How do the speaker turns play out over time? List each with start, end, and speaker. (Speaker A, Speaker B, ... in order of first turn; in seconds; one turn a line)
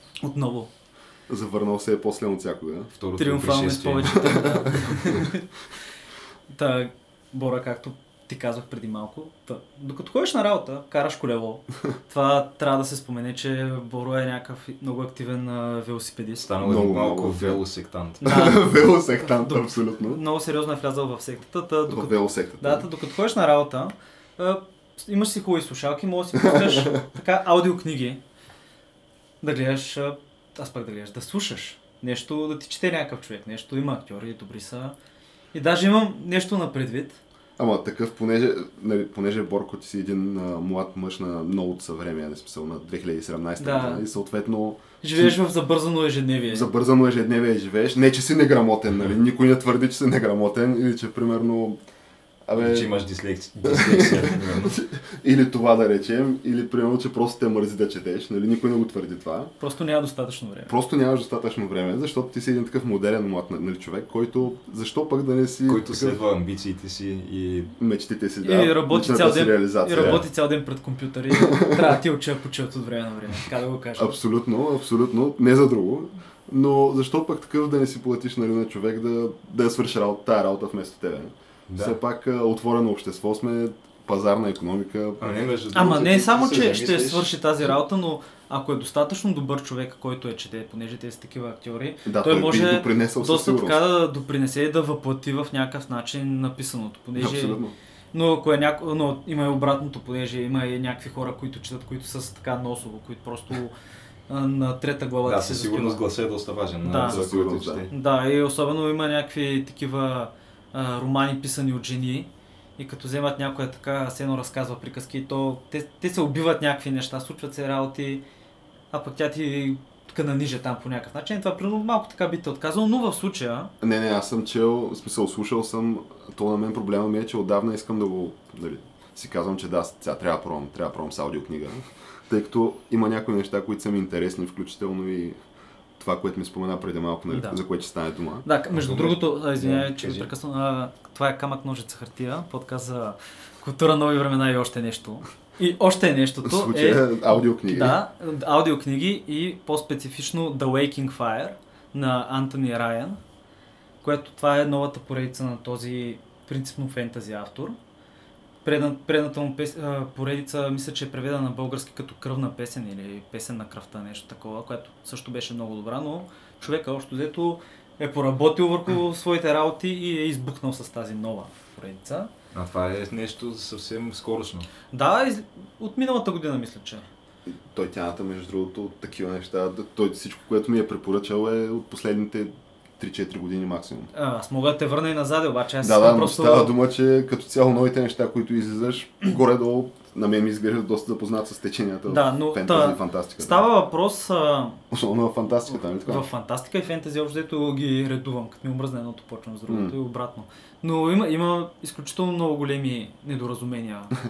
Speaker A: 0.2-0.7
Speaker B: 1.3-2.9
Speaker C: 3.0-5.0
Speaker A: 3.2-5.5
Speaker B: 4.3-5.2
Speaker A: 6.5-16.5
Speaker C: 16.4-18.3
Speaker B: 16.6-17.6
Speaker B: 18.2-20.2
Speaker A: 18.2-28.2
Speaker B: 21.9-22.9
Speaker B: 26.4-27.0
Speaker A: 29.4-35.0
Speaker A: 35.5-37.2
Speaker B: 37.6-45.4
Speaker A: 43.6-44.0
Speaker A: 45.0-46.7
Speaker B: 46.5-51.8
Speaker B: 52.5-52.9
Speaker C: 52.5-54.8
Speaker B: 53.6-59.5
Speaker A: 59.6-60.7
Speaker B: 60.7-66.2
Speaker C: 65.7-67.7
Speaker B: 67.8-70.2
Speaker A: 68.4-74.2
Speaker B: 71.3-72.0
Speaker B: 74.0-85.3
Speaker C: 81.7-82.0
Speaker C: 85.2-87.4
Speaker A: 85.7-97.6
Speaker B: 92.0-93.8
Speaker B: 97.2-97.8
Speaker A: 98.1-103.7
Speaker A: 104.3-106.0
Speaker C: 105.2-107.9
Speaker A: 106.8-107.2
Speaker B: 106.9-107.8
Speaker A: 107.9-118.2
Speaker A: 118.9-123.7
Speaker B: 123.8-135.4
Speaker B: 136.0-138.4
Speaker A: 137.3-137.6
Speaker A: 138.4-153.2
Speaker C: 138.7-140.3
Speaker B: 146.4-148.0
Speaker A: 154.0-157.8
Speaker A: 158.6-172.3
Speaker C: 172.5-174.7
Speaker A: 174.9-177.1
Speaker B: 177.5-184.1
Speaker A: 184.1-186.7
Speaker B: 185.8-193.6
Speaker A: 192.1-194.8
Speaker B: 194.9-196.2
Speaker A: 196.0-204.1
Speaker B: 199.7-199.9